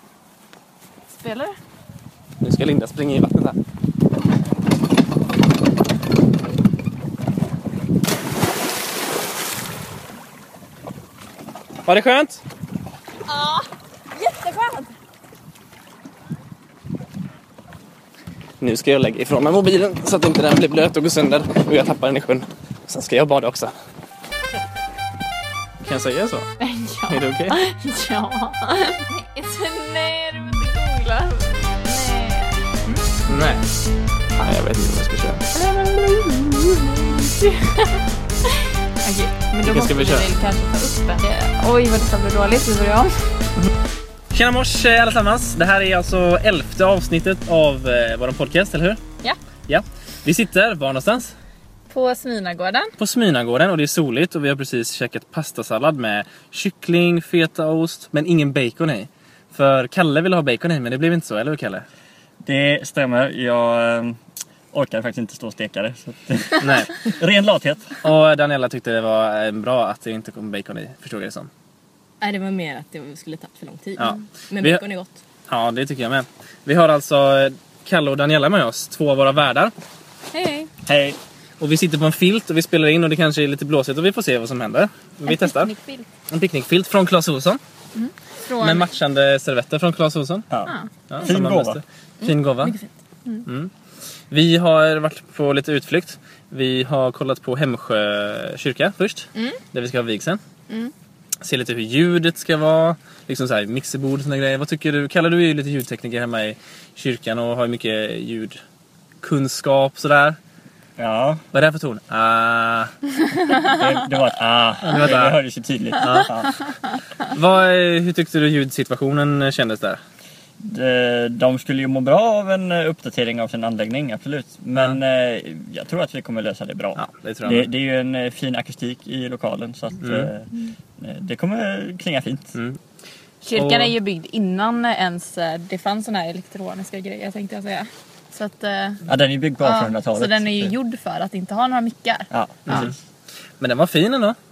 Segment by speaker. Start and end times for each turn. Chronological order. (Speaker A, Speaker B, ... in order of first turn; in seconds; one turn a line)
Speaker A: 1.1-1.5
Speaker B: 2.4-3.6
Speaker B: 11.8-12.4
Speaker C: 13.3-13.6
Speaker C: 14.1-14.9
Speaker B: 18.6-23.7
Speaker B: 25.8-26.5
Speaker A: 26.6-33.1
Speaker B: 27.1-27.6
Speaker B: 33.3-33.6
Speaker B: 34.4-35.5
Speaker A: 35.5-38.0
Speaker A: 39.0-43.1
Speaker B: 39.6-40.3
Speaker B: 44.3-49.0
Speaker B: 49.7-51.3
Speaker A: 51.9-52.9
Speaker B: 53.0-61.8
Speaker D: 62.4-64.2
Speaker D: 64.7-68.0
Speaker B: 66.6-66.9
Speaker B: 68.0-71.5
Speaker C: 72.2-75.2
Speaker B: 74.0-74.8
Speaker B: 75.5-79.7
Speaker C: 80.3-80.7
Speaker D: 80.8-81.2
Speaker B: 81.6-85.7
Speaker A: 85.2-86.0
Speaker B: 86.3-87.6
Speaker A: 87.9-88.9
Speaker B: 88.6-90.5
Speaker D: 90.5-91.8
Speaker A: 90.6-90.9
Speaker B: 91.1-92.8
Speaker C: 92.2-92.9
Speaker B: 94.3-100.4
Speaker B: 101.4-108.6
Speaker B: 109.2-110.4
Speaker D: 111.0-111.4
Speaker B: 111.5-112.9
Speaker D: 113.5-116.6
Speaker B: 114.8-115.4
Speaker B: 116.0-116.3
Speaker B: 117.3-120.0
Speaker D: 120.6-132.5
Speaker B: 127.0-127.7
Speaker B: 130.0-130.3
Speaker B: 132.5-132.8
Speaker A: 133.4-139.0
Speaker B: 133.5-133.9
Speaker D: 139.1-140.7
Speaker A: 139.6-142.3
Speaker D: 142.3-142.9
Speaker B: 142.7-142.9
Speaker B: 143.6-144.4